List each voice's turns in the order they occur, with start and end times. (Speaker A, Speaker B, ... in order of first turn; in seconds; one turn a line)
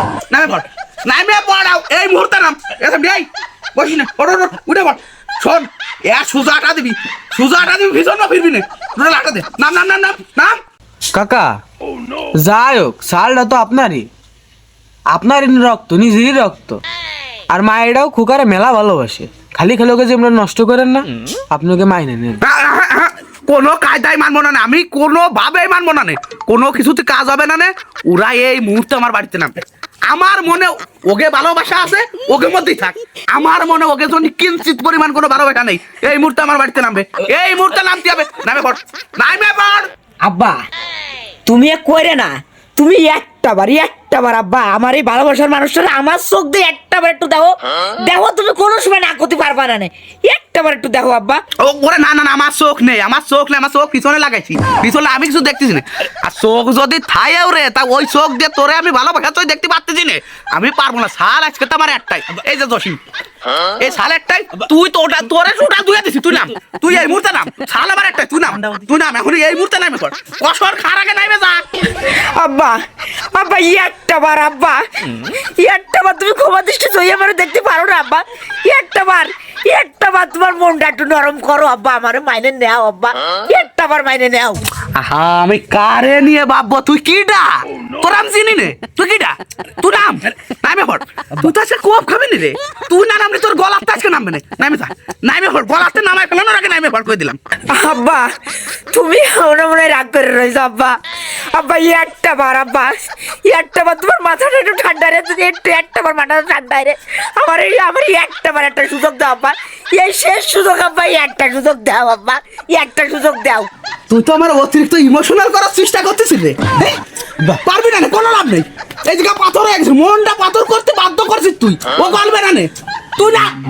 Speaker A: 0.3-10.6
Speaker B: 11.1-11.6
Speaker B: 12.4-14.1
Speaker B: 15.1-16.8
Speaker B: 17.5-22.4
Speaker A: 22.4-29.5
Speaker A: 30.1-39.9
Speaker C: 40.2-40.6
Speaker C: 41.5-51.4
Speaker A: 51.6-63.0
Speaker A: 63.8-71.6
Speaker C: 72.0-72.8
Speaker C: 73.3-84.6
Speaker A: 84.9-87.5
Speaker A: 88.0-97.4
Speaker C: 97.7-98.2
Speaker C: 98.9-100.9
Speaker C: 101.5-113.7
Speaker A: 114.1-117.0
Speaker A: 117.5-123.5